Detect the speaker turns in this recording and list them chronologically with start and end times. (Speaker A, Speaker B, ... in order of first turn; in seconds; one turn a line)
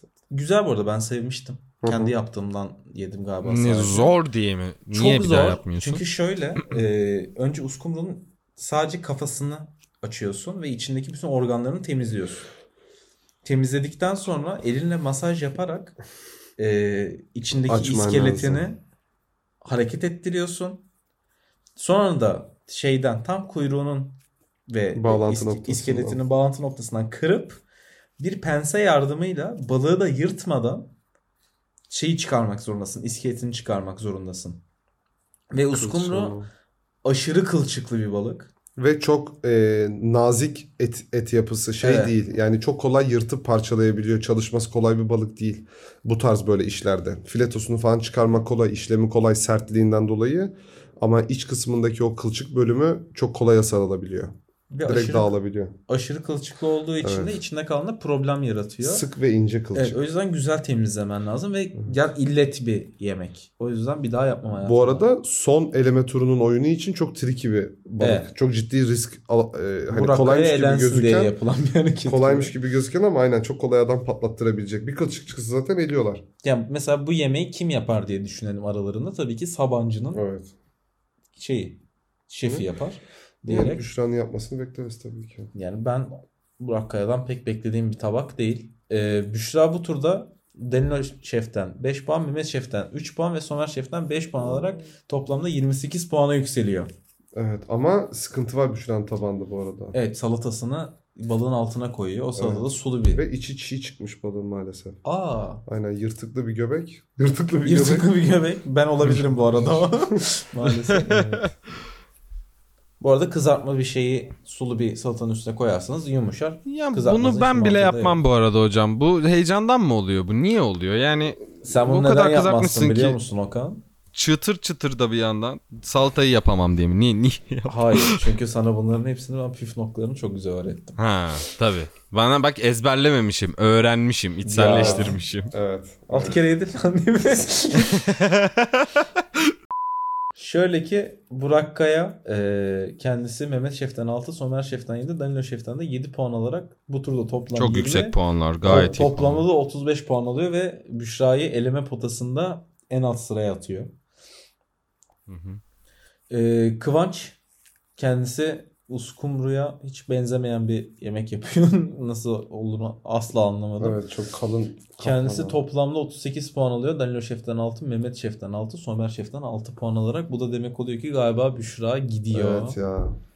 Speaker A: 0.3-4.1
Speaker B: 1.8-2.1
Speaker C: 3.4-6.0
Speaker A: 4.9-12.4
Speaker A: 13.4-15.9
Speaker A: 16.6-18.8
Speaker B: 17.7-18.7
Speaker A: 19.6-20.8
Speaker A: 21.8-27.6
Speaker B: 24.9-26.2
Speaker A: 28.2-30.9
Speaker A: 31.9-34.6
Speaker A: 35.5-36.4
Speaker B: 35.7-36.5
Speaker A: 37.0-38.5
Speaker B: 38.8-54.3
Speaker A: 41.8-42.1
Speaker A: 54.7-55.3
Speaker B: 54.9-55.7
Speaker A: 55.9-59.0
Speaker B: 57.0-57.4
Speaker B: 58.8-60.0
Speaker A: 59.7-65.1
Speaker B: 64.6-71.3
Speaker A: 68.0-68.3
Speaker A: 69.9-72.5
Speaker B: 72.0-76.2
Speaker A: 76.4-80.2
Speaker B: 80.1-80.5
Speaker A: 81.3-83.8
Speaker B: 83.4-85.5
Speaker A: 85.5-96.9
Speaker B: 97.3-99.9
Speaker A: 99.9-103.2
Speaker B: 102.4-105.0
Speaker A: 105.0-105.6
Speaker B: 105.6-108.1
Speaker A: 107.6-111.5
Speaker B: 109.2-110.1
Speaker C: 111.0-111.5
Speaker A: 113.0-118.2
Speaker C: 116.7-123.2
Speaker A: 121.6-123.8
Speaker C: 124.1-128.3
Speaker A: 127.7-131.0
Speaker C: 131.0-135.5
Speaker A: 134.4-135.2
Speaker B: 134.6-136.4
Speaker A: 136.1-138.0
Speaker C: 137.8-138.9
Speaker A: 140.3-153.9
Speaker C: 147.5-149.4
Speaker B: 148.7-148.9
Speaker C: 155.3-155.6
Speaker A: 156.3-157.4
Speaker A: 158.0-164.0
Speaker B: 163.8-165.6
Speaker A: 165.0-172.8
Speaker B: 172.3-173.2